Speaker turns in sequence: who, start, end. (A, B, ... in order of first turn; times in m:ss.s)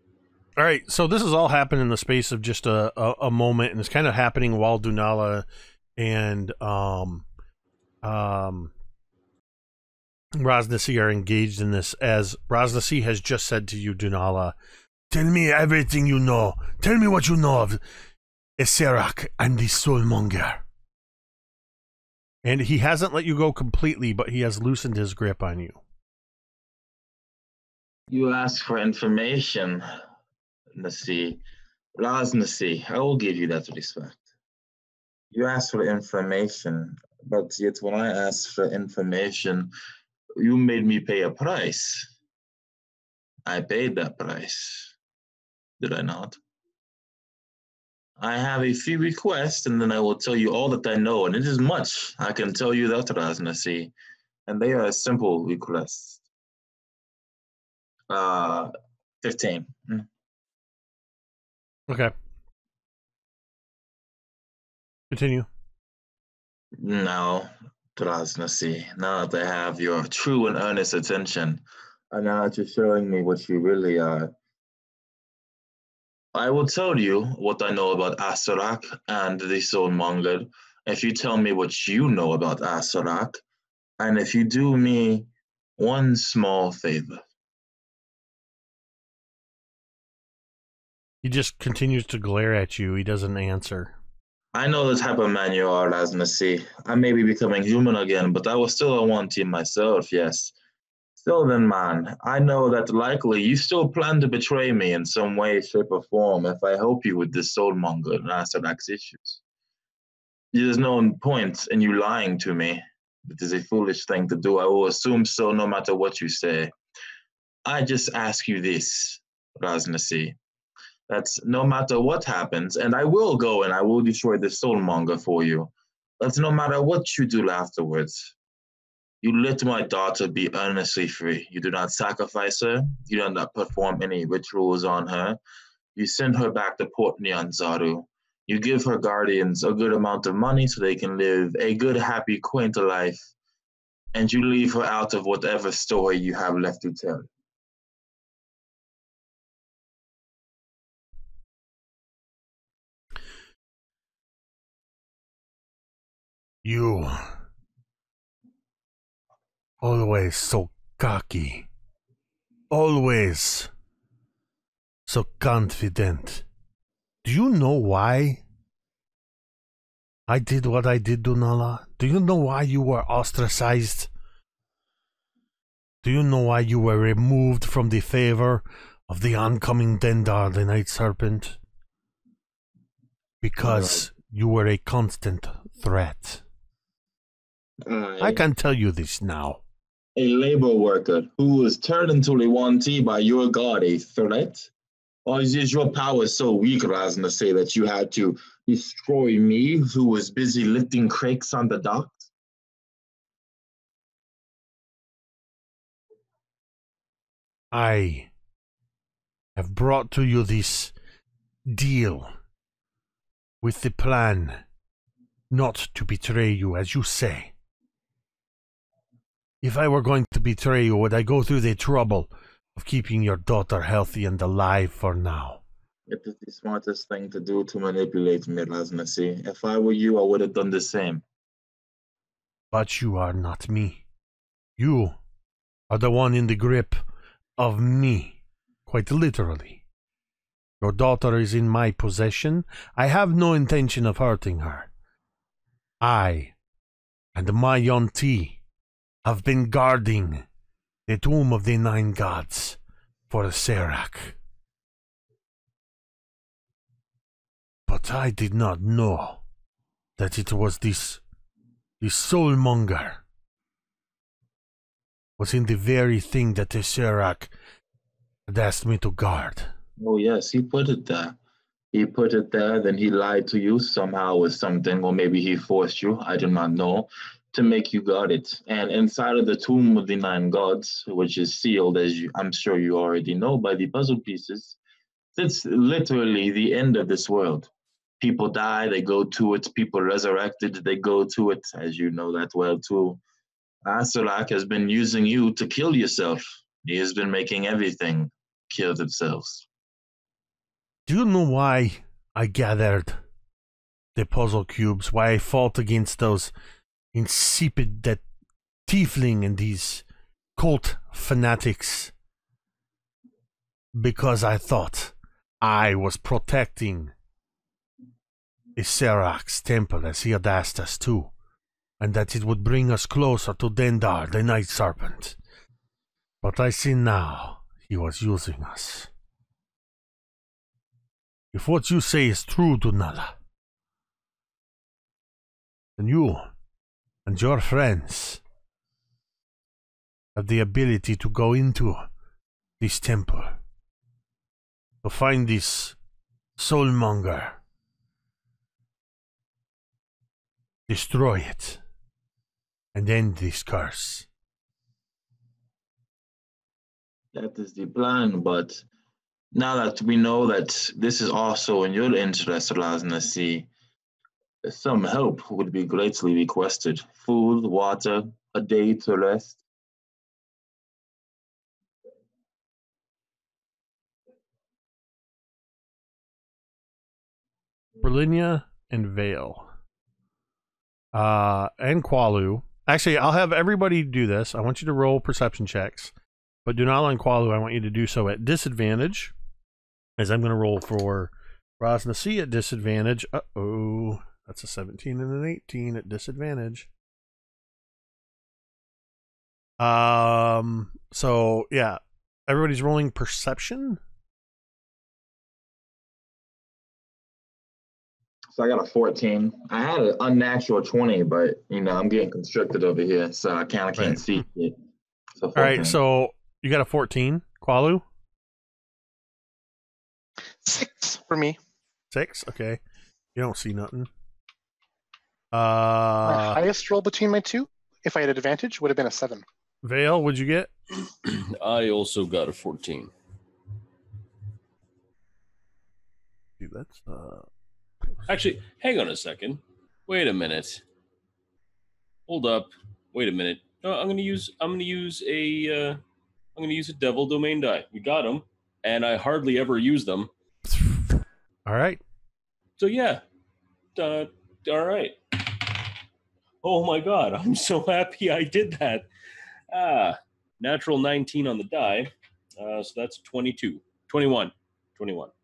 0:00.6-0:05.4 A
0:06.0-0:07.3 A
0:08.0-0:08.7 A
0:10.4-0:14.6 A
0:15.1-0:17.8 A
0:18.6-0:20.6 A
0:22.4-0:25.8 A
0:28.1-0:29.8 B
0:30.7-0:31.4 B
0:32.0-0:34.2 B
0:35.3-0:39.7 B
0:40.4-0:42.1 B
0:43.4-0:44.9 B
0:45.8-0:46.4 B
0:48.2-0:53.9 B
0:54.5-0:56.2 B
0:58.1-1:00.1 B
1:05.1-1:05.5 A
1:06.8-1:14.3 B
1:16.3-1:23.4 B
1:24.0-1:25.3 B
1:25.8-1:27.2 B
1:31.2-1:34.0 A
1:34.5-1:40.5 B
1:41.2-1:49.4 B
1:50.5-1:56.7 B
1:57.6-2:00.4 B
2:01.1-2:08.3 B
2:09.2-2:15.4 B
2:16.0-2:23.2 B
2:24.1-2:27.3 B
2:36.6-2:37.4 A
2:39.8-2:41.7 A
2:42.7-2:43.7 A
2:45.1-2:46.4 A
2:47.2-2:48.4 A
2:50.3-2:54.1 A
2:56.0-3:01.6 A
3:03.4-3:06.4 A
3:03.6-3:04.1 B
3:07.8-3:08.4 B
3:08.2-3:09.6 A
3:10.2-3:14.7 B
3:15.2-3:22.3 B
3:27.7-3:28.3 A
3:29.6-3:30.9 A
3:31.7-3:32.3 A
3:33.6-3:34.6 A
3:35.5-3:37.5 A
3:39.6-3:45.6 A
3:46.1-3:51.2 B
3:52.7-3:54.0 A
3:54.8-3:55.2 A
3:55.9-3:57.0 A
3:57.6-3:59.8 A
4:00.8-4:04.9 A
4:06.0-4:06.5 A
4:07.3-4:08.6 A
4:09.2-4:10.4 A
4:11.1-4:14.4 A
4:17.9-4:19.4 A
4:20.2-4:21.2 A
4:22.0-4:23.2 A
4:25.4-4:27.5 A
4:28.5-4:29.7 A
4:30.0-4:31.4 B
4:31.9-4:44.8 B
4:45.4-4:47.7 B
4:48.2-4:53.2 B
4:53.8-4:59.7 B
5:01.1-5:03.2 A
5:04.2-5:06.5 A
5:07.1-5:08.2 A
5:08.9-5:10.0 A
5:10.6-5:12.1 A
5:13.9-5:17.1 A
5:18.8-5:21.3 A
5:22.0-5:25.4 A
5:26.4-5:29.1 A
5:31.5-5:33.3 A
5:36.0-5:36.5 A
5:37.3-5:38.4 A
5:40.4-5:42.1 A
5:42.8-5:43.6 A
5:45.0-5:46.0 A
5:46.6-5:47.6 A
5:50.9-5:51.8 A
5:53.0-5:54.3 A
5:57.3-5:58.8 B
5:59.5-6:03.7 B
6:04.6-6:09.6 B
6:18.0-6:19.7 A
6:21.1-6:26.1 A
6:26.7-6:29.3 A
6:30.2-6:36.9 A
6:39.8-6:44.0 A
6:48.6-6:54.8 B
6:55.4-6:56.0 B
6:55.6-6:58.0 A
7:00.6-7:01.6 C
7:02.1-7:02.8 A
7:03.3-7:04.1 A
7:05.5-7:06.6 A
7:06.2-7:09.4 C
7:09.8-7:10.7 A
7:11.2-7:13.1 D
7:16.6-7:17.4 A
7:18.3-7:20.8 D
7:22.3-7:26.0 D
7:26.6-7:30.3 D
7:31.7-7:32.0 A
7:32.8-7:33.2 D
7:34.0-7:35.9 D
7:36.6-7:39.1 D
7:39.7-7:45.3 D